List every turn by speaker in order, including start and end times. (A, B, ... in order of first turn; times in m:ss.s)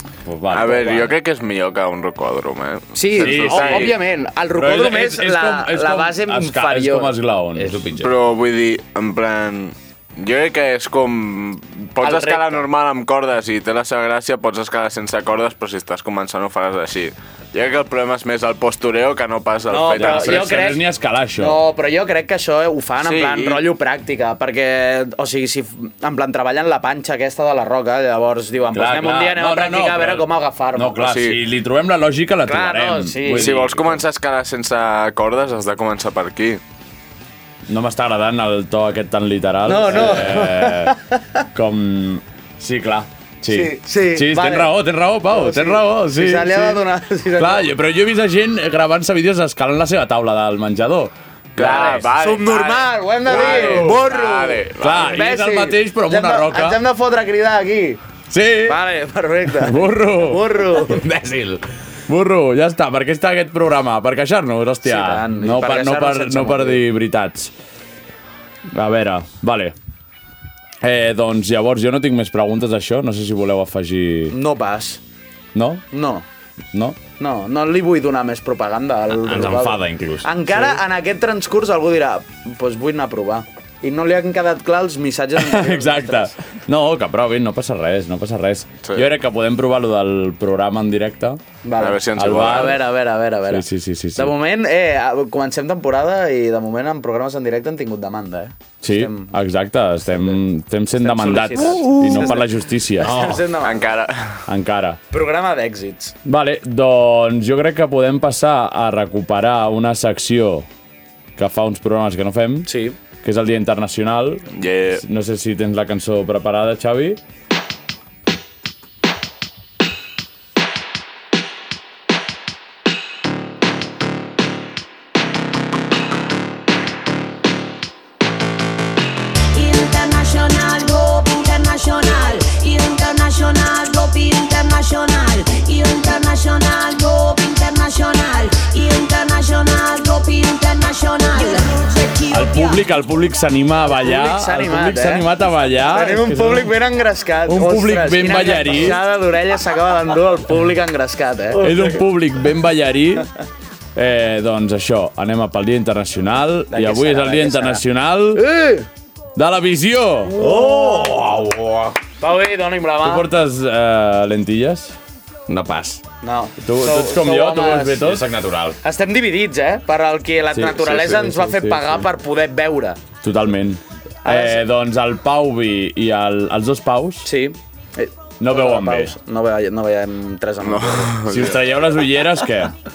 0:00.2-0:01.1 A
0:00.5-0:04.0 B
0:02.9-0:07.1 C
0:03.2-0:04.0 A
0:04.5-0:07.9 A
0:07.6-0:08.1 D
0:08.0-0:20.7 B
0:12.0-0:12.6 C
0:19.7-0:20.8 C
0:20.0-0:21.6 A
0:21.4-0:31.0 C
0:23.0-0:23.6 B
0:28.7-0:34.0 A
0:31.0-0:31.4 B
0:32.4-0:33.6 C
0:33.3-0:36.6 B
0:37.7-0:41.0 A
0:39.6-0:41.4 C
0:41.5-0:46.8 A
0:43.5-0:44.7 C
0:45.3-0:47.7 C
0:47.4-0:52.1 A
0:51.6-0:55.2 B
0:51.6-0:58.0 C
0:53.5-0:54.0 D
0:54.8-0:56.8 A
0:58.3-0:58.8 A
0:58.6-1:01.0 C
0:59.5-1:00.6 A
1:00.8-1:01.6 D
1:02.1-1:07.5 A
1:04.8-1:06.8 C
1:08.7-1:09.7 A
1:10.8-1:14.3 A
1:14.3-1:15.0 C
1:15.5-1:15.8 A
1:15.9-1:16.2 C
1:16.7-1:17.0 A
1:17.2-1:26.3 C
1:19.1-1:20.3 D
1:25.4-1:31.4 A
1:31.6-1:39.3 C
1:31.8-1:32.8 B
1:32.2-1:32.8 A
1:33.5-1:34.3 A
1:38.8-1:43.2 A
1:41.0-1:42.5 C
1:41.8-1:42.2 D
1:43.0-1:43.9 C
1:43.0-1:43.4 D
1:43.6-1:44.4 B
1:44.5-1:45.0 A
1:45.1-1:46.1 C
1:46.2-1:50.7 A
1:51.4-1:52.7 A
1:52.6-1:53.0 C
1:53.2-1:57.2 A
1:54.5-1:55.0 B
2:09.5-2:22.8 E
2:22.3-2:26.7 A
2:23.9-2:25.3 C
2:25.8-2:31.6 C
2:27.4-2:29.0 A
2:31.6-2:32.0 D
2:31.6-2:33.3 A
2:33.9-2:38.4 A
2:36.7-2:37.8 C
2:38.3-2:38.9 C
2:39.4-2:40.3 A
2:40.4-2:41.1 C
2:40.4-2:42.0 D
2:42.2-2:43.2 C
2:43.0-2:44.9 A
2:45.5-2:46.0 D
2:46.2-2:48.0 C
2:46.6-2:48.3 A
2:48.0-2:48.8 D
2:48.8-2:53.0 C
2:50.5-2:51.5 D
2:51.3-2:51.7 A
2:53.2-2:57.3 A
2:54.2-2:54.6 C
2:57.2-3:01.1 C
2:58.4-2:59.1 A
3:00.6-3:01.7 B
3:01.3-3:02.7 A